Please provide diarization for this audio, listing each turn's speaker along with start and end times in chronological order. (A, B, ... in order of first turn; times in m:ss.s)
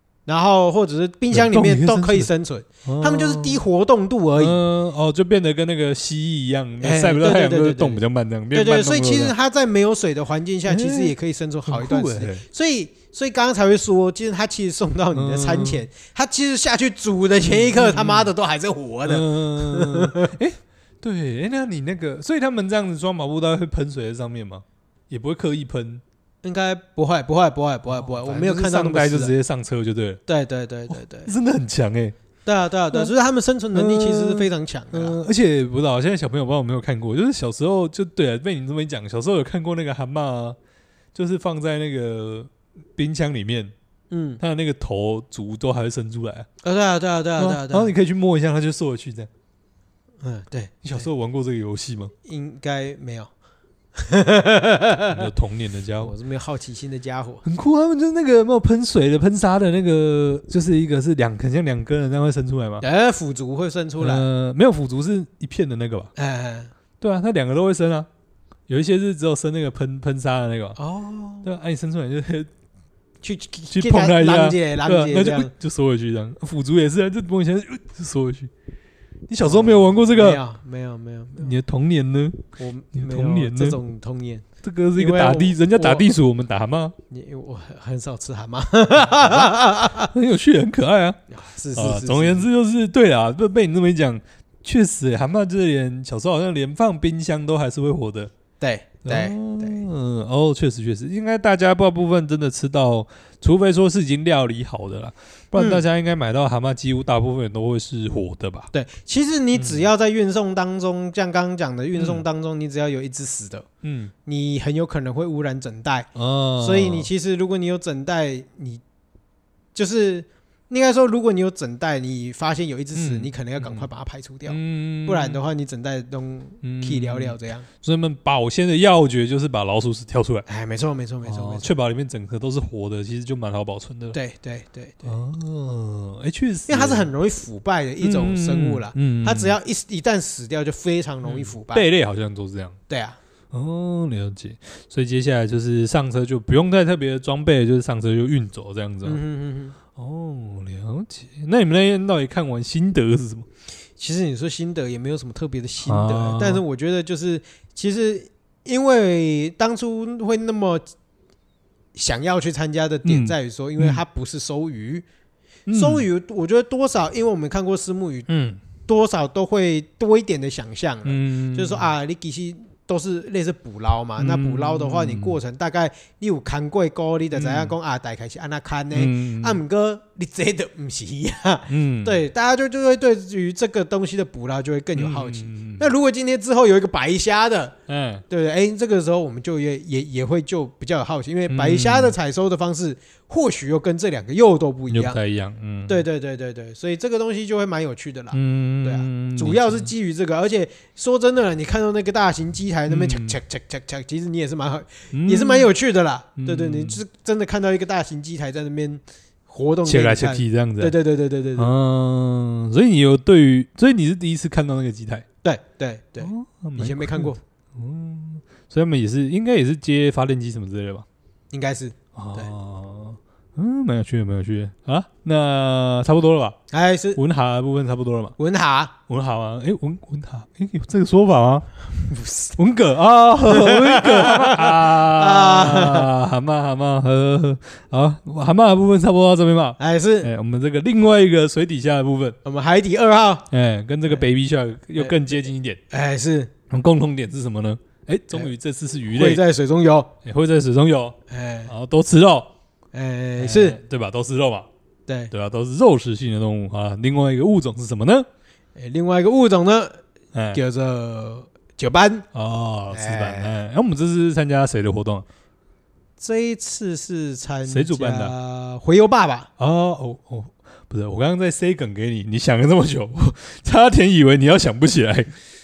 0:00.3-0:04.6 A
0:01.3-0:02.3 B
0:02.8-0:03.6 B
0:04.4-0:09.3 B
0:06.8-0:08.0 A
0:08.5-0:20.3 A
0:10.6-0:11.1 B
0:11.6-0:12.4 B
0:15.1-0:15.8 B
0:17.4-0:18.3 B
0:19.0-0:26.0 B
0:26.4-0:29.3 A
0:27.9-0:30.2 B
0:30.3-0:31.3 A
0:30.9-0:32.1 B
0:32.4-0:35.2 A
0:33.7-0:40.6 B
0:41.1-0:43.7 B
0:44.1-0:44.4 A
0:44.4-0:46.5 B
0:46.6-0:47.9 A
0:47.4-0:49.3 B
0:50.2-0:51.0 A
0:50.8-0:52.1 B
0:52.2-0:53.3 A
0:53.9-0:55.3 A
0:55.1-0:56.1 B
0:56.0-0:57.4 A
0:57.4-1:02.8 B
1:02.8-1:04.2 A
1:04.0-1:06.1 B
1:06.2-1:06.7 A
1:07.0-1:08.1 B
1:08.7-1:10.8 B
1:10.8-1:11.5 A
1:11.4-1:12.5 B
1:13.2-1:15.5 A
1:13.7-1:18.5 B
1:19.3-1:20.4 B
1:19.4-1:21.5 A
1:21.4-1:23.8 B
1:22.6-1:24.4 A
1:24.6-1:26.9 B
1:25.0-1:26.1 A
1:27.1-1:30.1 A
1:29.0-1:29.5 B
1:30.1-1:31.2 B
1:31.3-1:32.5 A
1:31.7-1:38.3 B
1:38.6-1:39.8 A
1:39.0-1:48.7 B
1:45.6-1:45.8 A
1:48.7-1:53.6 A
1:49.5-1:49.8 B
1:52.0-1:52.2 B
1:53.8-1:54.1 B
1:54.2-1:58.8 A
1:56.1-1:57.1 B
1:59.7-2:07.7 A
2:02.9-2:03.9 B
2:04.5-2:05.4 B
2:06.6-2:10.4 B
2:10.5-2:11.7 A
2:11.2-2:14.2 B
2:14.1-2:15.2 A
2:15.0-2:17.1 B
2:16.7-2:21.8 A
2:18.0-2:19.5 B
2:21.2-2:22.8 B
2:22.9-2:23.2 A
2:23.5-2:29.2 B
2:29.0-2:29.7 A
2:29.9-2:33.4 B
2:34.0-2:40.8 A
2:35.8-2:36.6 B
2:41.9-2:45.0 A
2:43.0-2:44.0 B
2:45.6-2:46.0 B
2:45.7-2:48.3 A
2:48.3-2:48.6 B
2:48.9-3:07.7 A
2:51.0-2:51.9 B
2:54.2-2:55.4 B
2:57.3-2:57.8 B
2:58.9-2:59.6 B
3:01.7-3:02.2 B
3:04.9-3:05.9 B
3:07.9-3:08.2 B
3:08.3-3:15.2 A
3:11.5-3:12.1 B
3:14.9-3:16.0 B
3:15.9-3:31.7 A
3:18.3-3:19.9 B
3:22.9-3:23.4 B
3:25.1-3:25.7 B
3:26.4-3:27.0 B
3:29.8-3:30.9 B
3:31.6-3:35.2 B
3:35.4-3:37.4 A
3:36.2-3:41.0 B
3:41.5-3:42.5 A
3:42.2-3:46.6 B
3:46.7-3:47.2 A
3:47.2-3:48.3 B
3:48.4-3:48.9 A
3:49.1-3:51.7 B
3:52.0-3:52.6 A
3:52.6-4:02.4 B
3:53.4-3:56.1 A
3:59.8-4:00.3 A
4:02.4-4:03.5 A
4:03.5-4:05.8 B
4:05.0-4:05.4 A
4:05.9-4:06.5 A
4:06.7-4:09.4 B
4:09.1-4:10.1 A
4:10.2-4:11.2 B
4:11.3-4:11.7 A
4:11.7-4:12.5 B
4:12.9-4:13.8 A
4:13.4-4:14.7 B
4:15.1-4:15.3 A
4:15.3-4:18.3 B
4:18.8-4:20.0 A
4:20.3-4:20.6 B
4:20.5-4:22.2 A
4:22.3-4:25.2 B
4:22.9-4:23.5 A
4:26.2-4:29.5 A
4:27.7-4:28.3 B
4:29.6-4:35.3 B